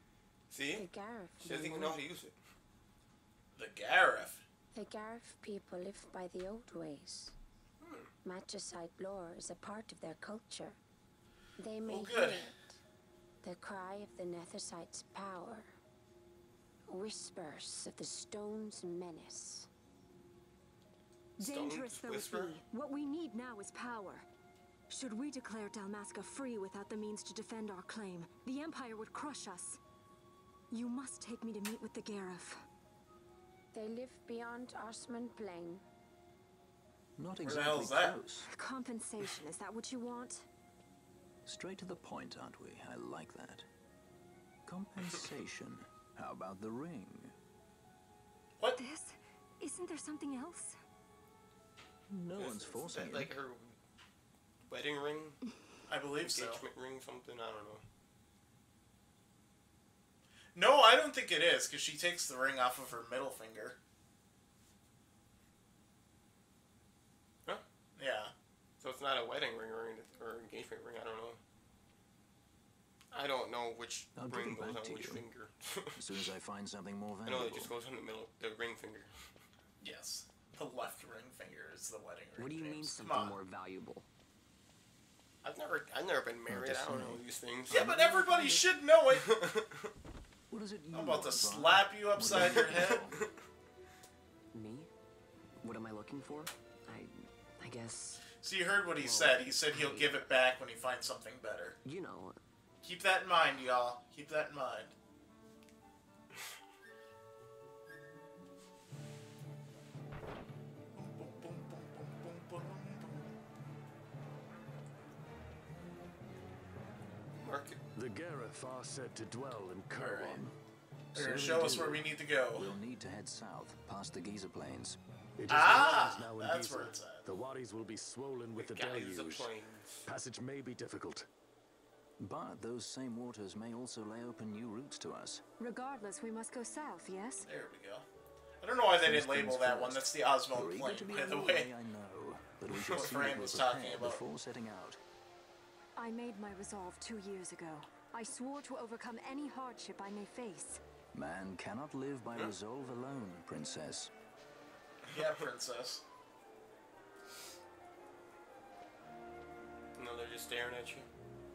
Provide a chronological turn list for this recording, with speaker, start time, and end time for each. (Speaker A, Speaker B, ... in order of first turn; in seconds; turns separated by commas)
Speaker A: 0.5-2.4, Speaker B: 0.8-2.0, Speaker C: 3.5-4.4, Speaker B: 4.7-7.3, Speaker A: 7.8-8.1, Speaker B: 8.2-10.8, Speaker B: 11.6-12.6, Speaker C: 11.8-12.5, Speaker B: 13.4-15.7, Speaker B: 16.9-19.7, Speaker D: 21.4-24.3, Speaker A: 21.4-22.6, Speaker D: 24.9-29.8, Speaker D: 30.7-32.5, Speaker B: 33.7-35.8, Speaker E: 37.2-38.5, Speaker C: 37.4-38.2, Speaker D: 38.5-40.5, Speaker E: 41.5-43.7, Speaker E: 44.7-47.3, Speaker D: 48.8-50.8, Speaker E: 52.1-53.3, Speaker A: 52.4-53.8, Speaker A: 54.7-55.4, Speaker C: 55.9-56.6, Speaker A: 56.2-57.8, Speaker C: 60.5-63.8, Speaker C: 68.0-68.3, Speaker A: 68.8-71.4, Speaker A: 73.1-76.0, Speaker E: 74.2-75.3, Speaker E: 76.0-77.7, Speaker A: 77.2-79.1, Speaker C: 79.8-83.4, Speaker F: 82.4-84.1, Speaker A: 85.4-87.9, Speaker E: 86.5-87.2, Speaker C: 87.7-89.4, Speaker F: 88.0-88.6, Speaker A: 89.2-89.6, Speaker E: 90.5-93.2, Speaker C: 90.9-93.0, Speaker A: 92.6-93.2, Speaker F: 94.5-94.9, Speaker F: 95.6-98.2, Speaker C: 98.3-101.8, Speaker F: 99.0-100.3, Speaker F: 101.8-102.4, Speaker C: 102.8-104.9, Speaker C: 110.9-113.3, Speaker A: 117.4-117.8, Speaker E: 118.0-120.5, Speaker G: 118.0-118.4, Speaker G: 119.0-120.5, Speaker C: 120.0-120.4, Speaker C: 121.1-122.7, Speaker E: 121.1-125.0, Speaker G: 125.4-129.5, Speaker C: 125.5-127.3, Speaker E: 125.5-126.9, Speaker E: 127.8-128.3, Speaker A: 128.6-130.1, Speaker E: 128.9-129.4, Speaker G: 130.1-131.2, Speaker E: 130.2-130.7, Speaker E: 132.2-135.4, Speaker D: 135.6-137.5, Speaker C: 137.4-138.1, Speaker C: 138.6-141.7, Speaker E: 139.0-145.0, Speaker C: 142.9-144.3, Speaker D: 146.0-150.8, Speaker E: 151.1-154.1, Speaker C: 155.1-156.0, Speaker A: 160.0-161.1